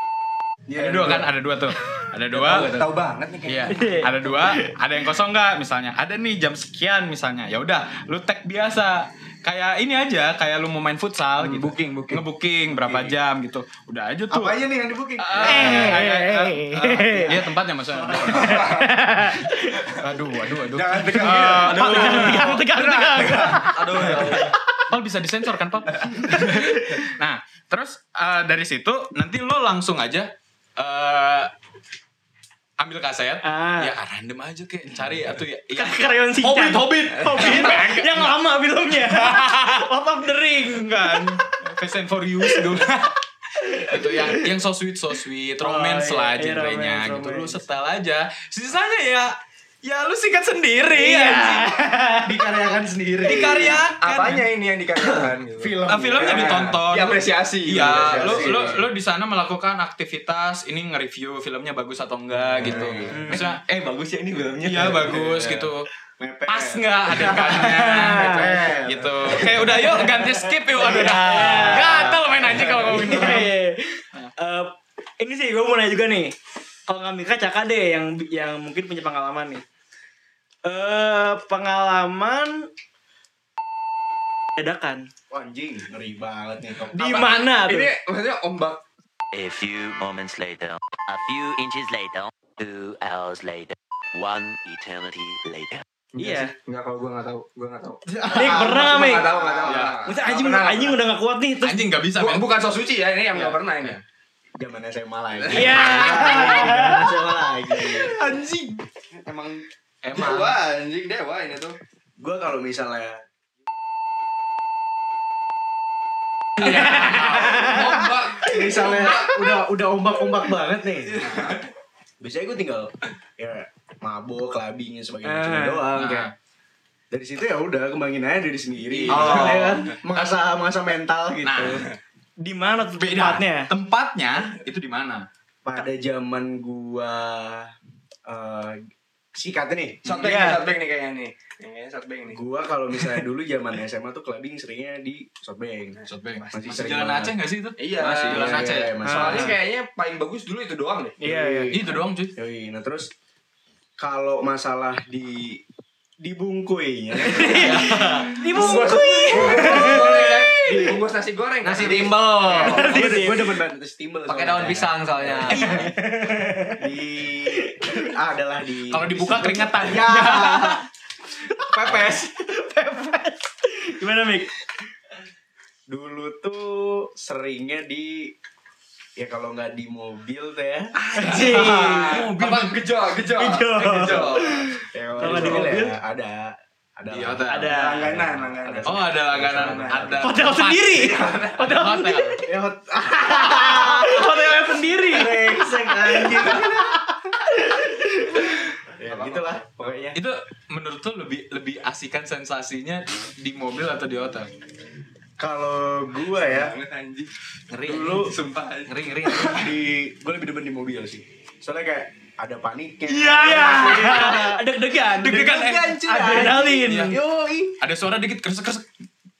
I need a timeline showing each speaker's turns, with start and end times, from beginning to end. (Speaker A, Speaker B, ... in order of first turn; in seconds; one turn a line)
Speaker A: 0.7-1.3
Speaker B: 0.7-2.9
Speaker A: 2.3-4.3
Speaker B: 3.5-14.6
Speaker C: 3.7-4.7
Speaker A: 11.4-12.2
Speaker D: 12.8-13.1
Speaker D: 14.3-16.0
Speaker B: 15.2-18.7
Speaker C: 15.4-17.4
Speaker A: 18.3-18.9
Speaker C: 18.4-19.8
Speaker B: 19.9-22.6
Speaker A: 20.7-22.6
Speaker C: 21.7-23.8
Speaker E: 23.5-24.5
Speaker B: 24.0-24.4
Speaker B: 24.9-31.5
Speaker C: 26.2-27.1
Speaker B: 32.8-36.9
Speaker C: 33.4-33.9
Speaker C: 35.7-41.3
Speaker E: 36.4-37.4
Speaker A: 37.3-37.8
Speaker B: 37.4-38.3
Speaker B: 39.0-39.8
Speaker B: 40.7-43.2
Speaker C: 42.5-42.8
Speaker C: 43.6-44.5
Speaker B: 43.8-49.3
Speaker C: 45.6-47.6
Speaker B: 49.8-51.8
Speaker C: 50.9-52.5
Speaker D: 52.2-53.8
Speaker B: 53.2-54.5
Speaker A: 54.0-58.8
Speaker D: 55.6-56.8
Speaker B: 55.9-63.6
Speaker D: 57.8-58.8
Speaker D: 62.5-65.5
Speaker A: 62.6-63.1
Speaker C: 63.1-63.5
Speaker B: 64.6-65.9
Speaker A: 65.0-65.6
Speaker D: 66.2-69.9
Speaker B: 66.5-73.5
Speaker C: 67.6-68.5
Speaker C: 69.9-76.3
Speaker A: 70.7-71.7
Speaker C: 76.9-79.6
Speaker C: 80.6-82.7
Speaker C: 84.6-85.0
Speaker D: 85.3-87.3
Speaker C: 86.9-87.9
Speaker A: 87.0-88.8
Speaker F: 89.3-95.8
Speaker A: 96.1-101.0
Speaker C: 96.2-96.5
Speaker C: 98.2-99.3
Speaker B: 99.6-100.0
Speaker C: 100.0-101.8
Speaker B: 101.6-102.5
Speaker A: 102.2-104.0
Speaker B: 103.5-104.0
Speaker D: 104.6-108.2
Speaker A: 105.5-105.8
Speaker C: 105.5-107.2
Speaker A: 107.7-111.8
Speaker B: 110.0-110.5
Speaker D: 112.2-113.2
Speaker B: 116.6-118.0
Speaker C: 116.6-117.8
Speaker A: 116.6-119.5
Speaker D: 118.4-121.4
Speaker A: 121.1-121.7
Speaker D: 122.2-126.3
Speaker C: 125.2-125.9
Speaker B: 125.9-126.3
Speaker D: 127.1-131.9
Speaker A: 128.8-130.0
Speaker B: 129.1-129.8
Speaker E: 129.2-129.7
Speaker B: 131.4-131.8
Speaker A: 131.7-131.9
Speaker C: 132.4-133.7
Speaker B: 132.9-135.2
Speaker D: 135.6-137.7
Speaker D: 138.3-138.8
Speaker D: 139.3-140.4
Speaker A: 140.0-142.4
Speaker C: 140.2-140.6
Speaker D: 142.3-147.3
Speaker A: 143.0-143.2
Speaker B: 146.1-149.4
Speaker A: 147.8-151.2
Speaker D: 148.3-149.6
Speaker C: 149.1-149.5
Speaker C: 151.2-151.7
Speaker D: 151.2-153.1
Speaker B: 151.7-152.3
Speaker D: 154.0-155.6
Speaker D: 156.2-157.9
Speaker C: 157.2-160.9
Speaker B: 157.6-157.9
Speaker A: 158.4-162.2
Speaker D: 158.7-160.2
Speaker E: 161.6-162.9
Speaker D: 162.4-165.8
Speaker C: 162.6-163.6
Speaker E: 164.2-165.8
Speaker C: 165.5-166.8
Speaker D: 166.7-170.8
Speaker C: 167.5-167.9
Speaker B: 168.9-170.8
Speaker B: 171.6-172.3
Speaker C: 172.3-174.5
Speaker D: 175.9-178.3
Speaker D: 179.2-180.9
Speaker A: 181.0-185.7
Speaker C: 181.2-182.2
Speaker B: 181.2-182.8
Speaker C: 183.4-185.9
Speaker D: 184.9-190.2
Speaker B: 187.1-187.7
Speaker C: 187.5-188.1
Speaker A: 187.7-190.3
Speaker B: 188.8-192.4
Speaker C: 190.2-192.4
Speaker A: 191.0-191.7
Speaker D: 192.4-194.4
Speaker C: 193.2-196.8
Speaker D: 195.1-197.0
Speaker C: 197.4-198.6
Speaker D: 199.0-200.2
Speaker A: 199.0-200.1
Speaker B: 200.1-204.5
Speaker D: 205.4-206.7
Speaker A: 206.3-209.7
Speaker E: 207.7-208.3
Speaker D: 207.8-208.3
Speaker E: 208.9-209.5
Speaker D: 209.4-214.4
Speaker C: 213.1-217.2
Speaker B: 215.2-215.9
Speaker D: 215.2-217.8
Speaker B: 216.8-217.1
Speaker B: 217.8-218.9